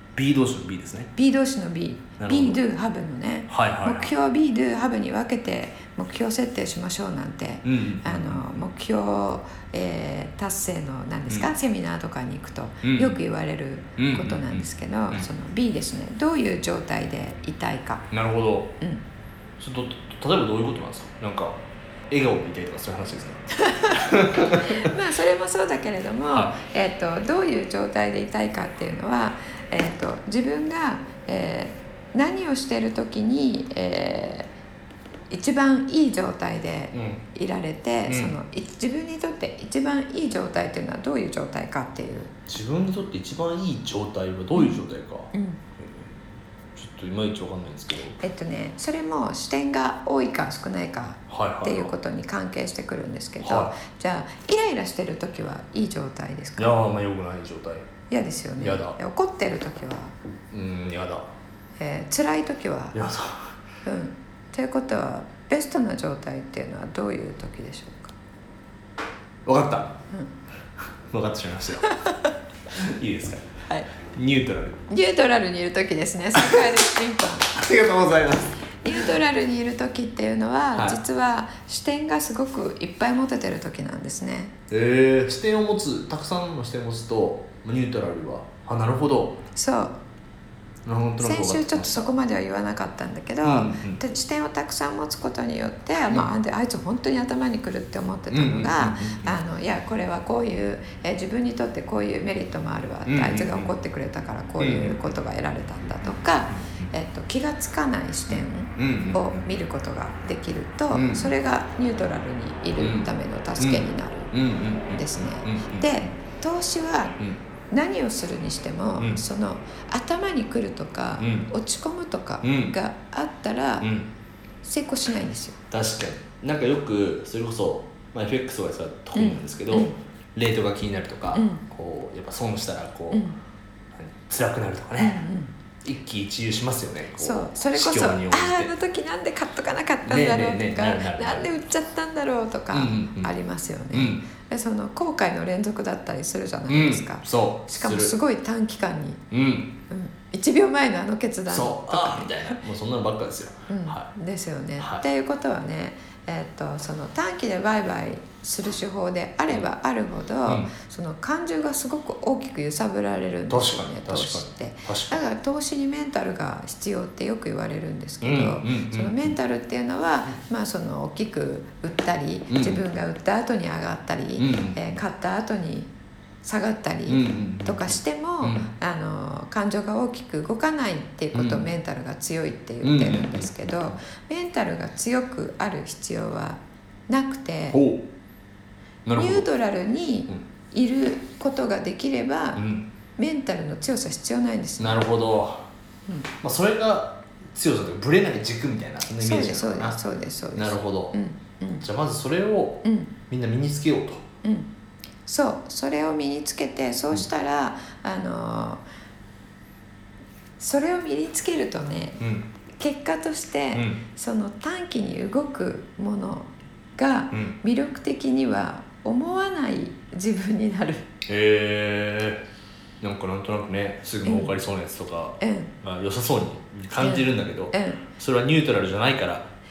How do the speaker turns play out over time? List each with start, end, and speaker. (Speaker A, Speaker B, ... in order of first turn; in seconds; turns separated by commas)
Speaker A: 0.1-1.1, Speaker B: 1.1-18.1, Speaker A: 2.2-2.6, Speaker A: 3.5-4.1, Speaker A: 7.6-8.4, Speaker A: 12.8-13.2, Speaker A: 14.0-15.3, Speaker A: 18.1-18.7, Speaker A: 19.6-24.9, Speaker B: 23.6-24.0, Speaker B: 24.5-34.5, Speaker A: 26.3-26.6, Speaker B: 35.3-42.3, Speaker A: 36.9-37.2, Speaker A: 38.1-38.3, Speaker A: 42.5-46.1, Speaker B: 44.5-44.8, Speaker B: 45.3-45.6, Speaker A: 46.7-48.2, Speaker B: 48.2-56.8, Speaker A: 51.3-51.9, Speaker A: 53.4-53.8, Speaker A: 56.6-57.9, Speaker B: 58.1-60.1, Speaker A: 58.6-59.0, Speaker A: 60.5-61.3, Speaker B: 61.8-63.0, Speaker A: 62.9-63.5, Speaker B: 63.8-68.1, Speaker A: 69.4-70.0, Speaker A: 71.1-71.9, Speaker B: 71.8-72.3, Speaker A: 72.7-73.5, Speaker A: 74.0-74.8, Speaker B: 74.9-77.5, Speaker A: 76.3-76.7, Speaker A: 77.5-79.1, Speaker B: 78.8-84.5, Speaker A: 84.7-89.4, Speaker B: 89.5-90.0, Speaker A: 90.8-92.1, Speaker B: 91.2-114.3, Speaker A: 93.4-94.0, Speaker A: 98.3-99.4, Speaker A: 103.0-103.7, Speaker A: 104.6-105.0, Speaker A: 106.5-106.9, Speaker A: 108.3-109.4, Speaker A: 110.9-111.3, Speaker A: 112.8-116.1, Speaker B: 114.9-117.2, Speaker B: 117.7-123.9, Speaker A: 121.2-121.5, Speaker A: 122.4-122.7, Speaker A: 123.8-124.1, Speaker B: 124.6-125.6, Speaker A: 125.7-133.2, Speaker B: 129.1-130.0, Speaker B: 131.3-131.6, Speaker B: 133.1-133.4, Speaker A: 133.9-135.2, Speaker B: 135.0-135.5, Speaker A: 135.8-138.7, Speaker B: 137.2-149.2, Speaker A: 140.0-141.5, Speaker A: 142.7-143.3, Speaker A: 143.9-144.2, Speaker A: 146.7-148.1, Speaker A: 149.3-149.8, Speaker B: 149.9-152.5, Speaker A: 151.5-154.1, Speaker B: 153.7-175.9, Speaker A: 154.8-155.1, Speaker A: 160.4-160.7, Speaker A: 163.5-165.2, Speaker A: 168.2-169.3, Speaker A: 172.5-172.8, Speaker A: 174.4-174.9, Speaker B: 176.4-187.8, Speaker A: 177.1-178.7, Speaker A: 181.3-181.7, Speaker A: 182.8-183.9, Speaker A: 187.7-188.1, Speaker A: 189.1-189.4, Speaker B: 189.2-192.6, Speaker A: 192.6-192.9, Speaker B: 193.2-195.0, Speaker A: 194.8-195.7, Speaker A: 196.4-200.0, Speaker B: 199.2-201.8, Speaker A: 200.5-201.2, Speaker A: 201.8-204.2, Speaker B: 202.8-203.1, Speaker B: 204.4-204.7, Speaker B: 205.2-208.8, Speaker B: 210.6-212.2, Speaker A: 212.2-212.5, Speaker B: 212.8-221.1, Speaker A: 213.7-214.0, Speaker A: 221.2-222.4, Speaker A: 223.0-229.5, Speaker B: 224.2-224.5, Speaker B: 225.4-225.7, Speaker B: 227.0-228.0